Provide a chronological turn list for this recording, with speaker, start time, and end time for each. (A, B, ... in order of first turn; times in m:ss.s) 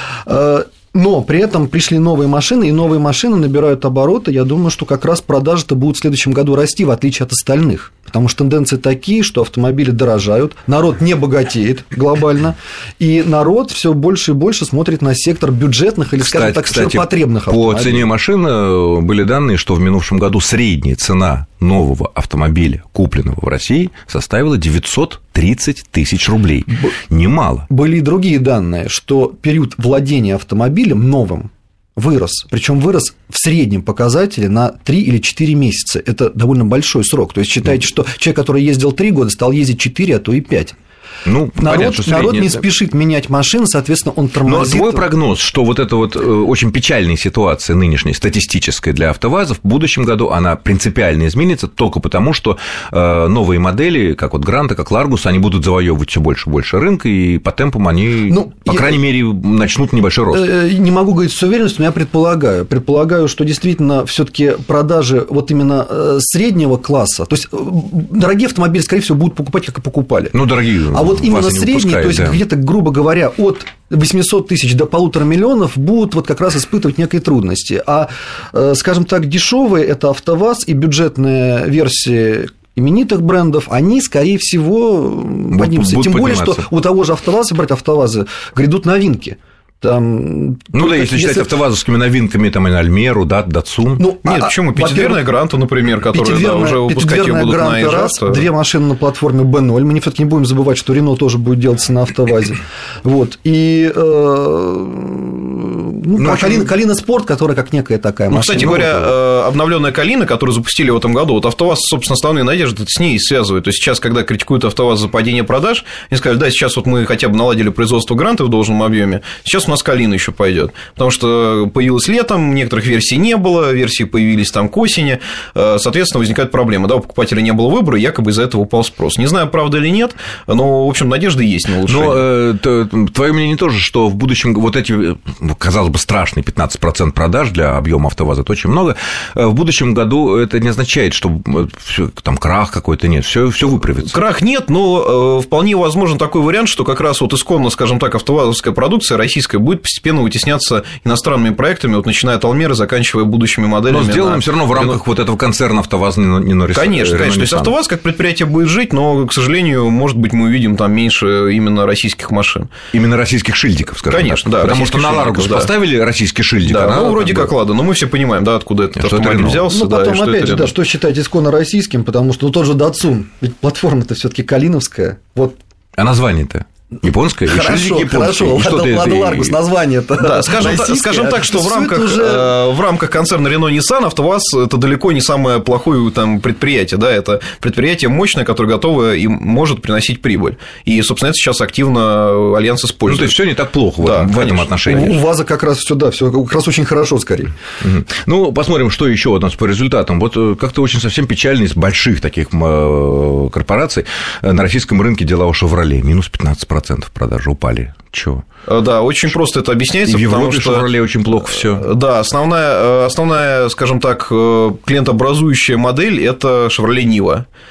0:00.2-0:18.1 A
0:16.2-0:27.7 B
0:27.7-0:40.7 A
0:41.2-0:42.6 B
0:41.6-0:45.1 A
0:44.4-1:00.4 B
0:58.3-0:59.0 A
1:00.3-1:10.4 A
1:10.3-1:12.4 B
1:10.9-1:31.5 A
1:25.5-1:26.7 B
1:30.7-1:34.1 B
1:34.0-1:35.3 A
1:34.2-1:38.5 C
1:36.0-1:49.1 A
1:46.2-1:46.6 B
1:48.3-2:12.2 C
2:11.8-2:24.2 B
2:24.0-2:35.0 C
2:33.9-2:37.7 B
2:36.7-2:42.7 C
2:42.9-2:47.5 B
2:44.1-2:45.7 C
2:46.6-2:50.7 C
2:49.0-2:49.6 B
2:49.6-2:55.6 A
2:56.0-2:59.6 B
2:57.4-3:02.6 A
3:00.2-3:13.4 C
3:13.1-3:15.2 B
3:14.0-3:15.2 C
3:14.9-3:17.5 A
3:17.8-3:28.4 B
3:28.7-3:30.9 C
3:30.0-3:31.8 B
3:31.6-3:37.4 C